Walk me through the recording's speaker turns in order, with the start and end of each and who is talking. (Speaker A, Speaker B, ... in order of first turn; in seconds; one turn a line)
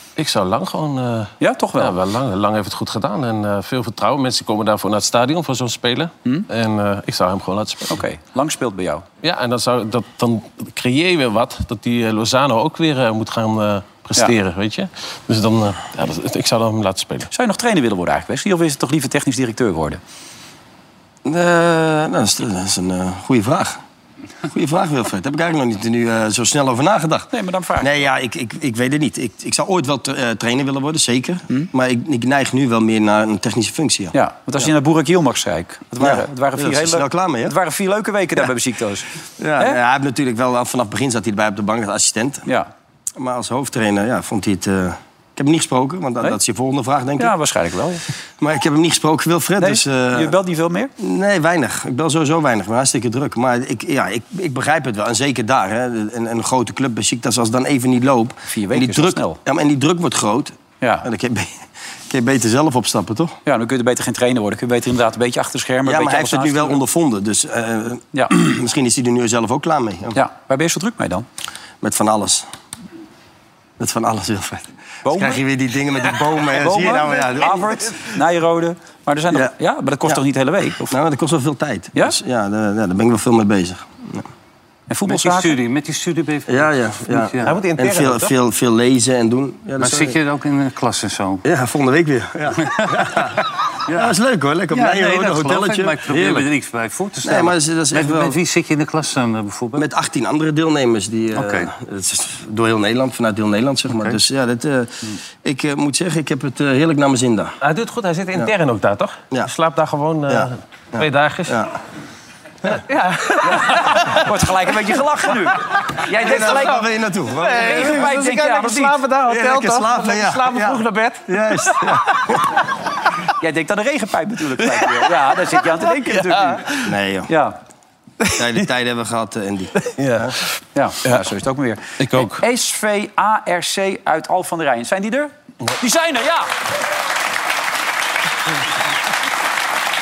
Speaker A: 0.2-8.0
Speaker B: 1.4-2.0
Speaker B: 7.9-9.1
Speaker A: 9.2-17.3
Speaker B: 17.3-20.0
Speaker C: 21.2-23.8
Speaker C: 24.5-27.3
Speaker B: 27.3-28.0
Speaker C: 27.8-34.1
Speaker B: 34.1-39.1
Speaker C: 36.0-37.5
Speaker C: 39.4-42.5
Speaker B: 42.5-42.7
Speaker C: 43.2-47.3
Speaker B: 47.2-48.0
Speaker C: 48.4-50.3
Speaker B: 49.6-50.9
Speaker C: 51.0-63.4
Speaker B: 58.5-59.4
Speaker B: 60.8-61.1
Speaker B: 63.5-66.8
Speaker C: 65.8-70.2
Speaker B: 70.2-71.2
Speaker C: 71.8-72.5
Speaker C: 73.8-78.0
Speaker B: 75.0-75.4
Speaker B: 76.5-80.9
Speaker C: 80.9-84.3
Speaker B: 84.9-85.6
Speaker D: 85.1-87.6
Speaker C: 86.5-90.2
Speaker A: 87.4-88.3
Speaker D: 89.8-91.5
Speaker C: 91.5-96.5
Speaker D: 92.7-93.3
Speaker D: 93.9-94.2
Speaker D: 94.7-99.9
Speaker C: 97.2-98.4
Speaker C: 99.8-107.6
Speaker D: 101.3-101.7
Speaker D: 103.9-104.2
Speaker A: 107.6-111.6
Speaker C: 110.3-111.7
Speaker A: 112.7-114.2
Speaker B: 113.7-116.9
Speaker C: 116.1-118.1
Speaker A: 116.3-116.8
Speaker A: 117.4-122.0
Speaker B: 117.5-119.0
Speaker C: 119.3-122.5
Speaker B: 123.4-126.7
Speaker A: 124.7-126.9
Speaker C: 126.8-127.3
Speaker B: 127.3-127.6
Speaker A: 128.2-128.6
Speaker C: 128.4-130.3
Speaker A: 129.8-130.4
Speaker B: 130.8-136.5
Speaker A: 132.0-132.4